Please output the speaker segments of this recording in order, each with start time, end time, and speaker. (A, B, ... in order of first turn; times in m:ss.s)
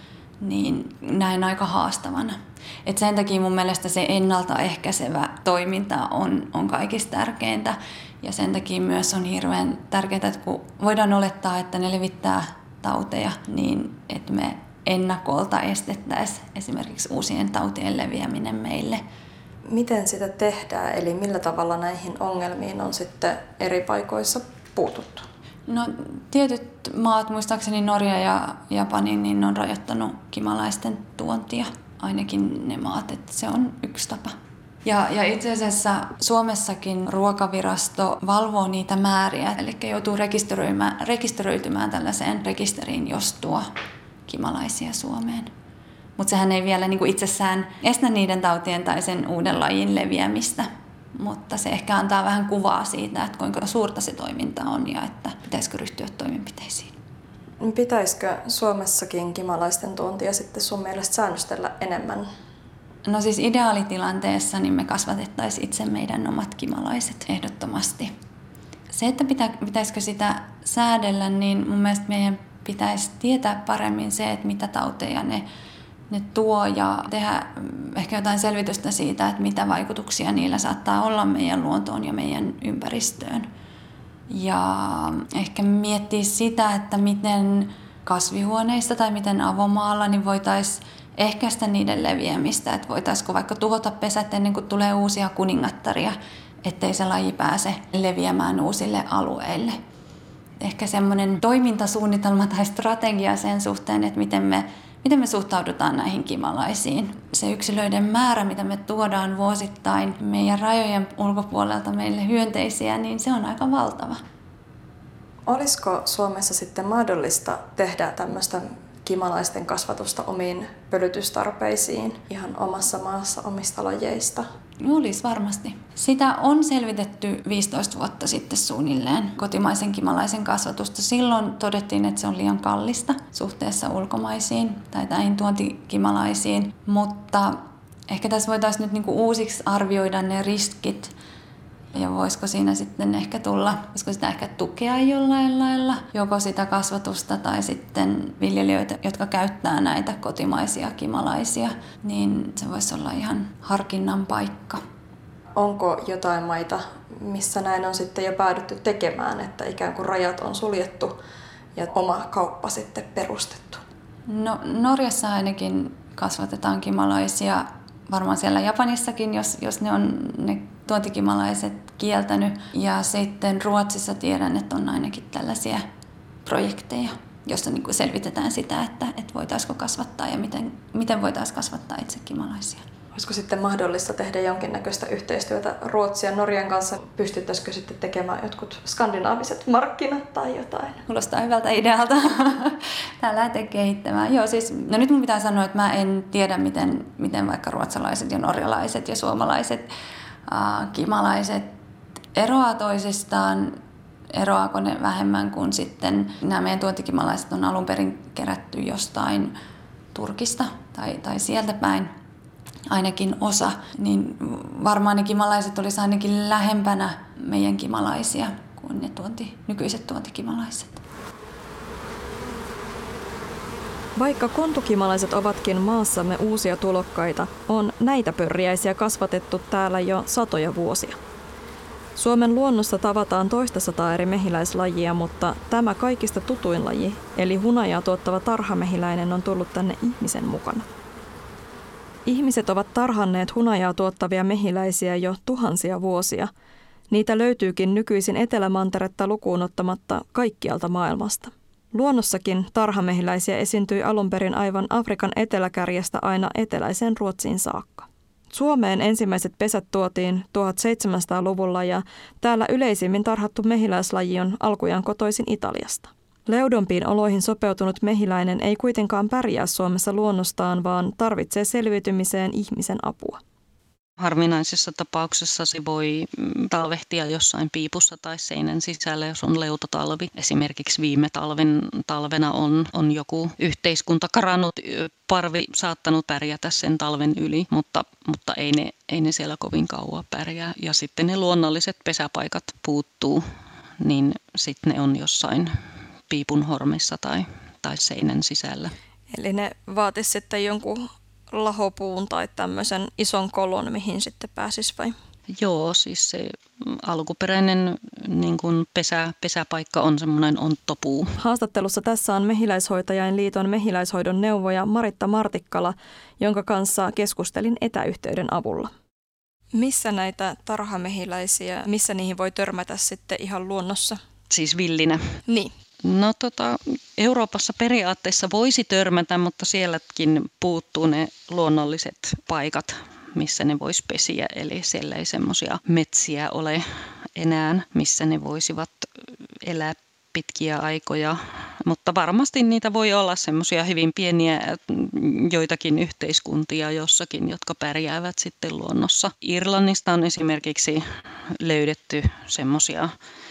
0:00.4-0:19.0 A
0:19.7-0:25.3 B
0:25.7-0:43.7 A
0:44.3-0:45.5 A
0:46.2-0:56.9 A
0:57.6-1:02.3 B
1:03.1-1:08.1 A
1:08.9-1:15.5 A
1:16.1-1:23.5 A
1:24.3-1:39.8 A
1:40.6-1:54.2 A
1:55.5-2:04.5 B
2:04.8-2:21.1 A
2:21.9-2:34.8 A
2:35.6-2:41.2 B
2:41.8-2:43.8 B
2:44.3-2:55.8 A
2:56.4-3:02.8 A
3:03.1-3:11.0 B
3:11.1-3:19.9 A
3:20.5-3:21.7 A
3:22.4-3:23.8 A
3:24.3-3:29.5 A
3:30.1-3:32.1 A
3:32.9-3:41.0 A
3:44.2-3:51.2 B
3:52.2-4:00.9 B
4:02.3-4:06.5 B
4:07.1-4:33.4 B
4:34.2-4:53.4 C
4:54.0-4:55.7 C
4:56.3-4:58.9 C
4:59.3-5:05.2 B
5:05.6-5:11.4 C
5:11.4-5:18.9 B
5:19.8-5:24.2 B
5:24.5-5:25.4 C
5:26.0-5:36.8 C
5:37.4-5:39.1 C
5:39.6-5:51.0 C
5:51.6-5:53.1 C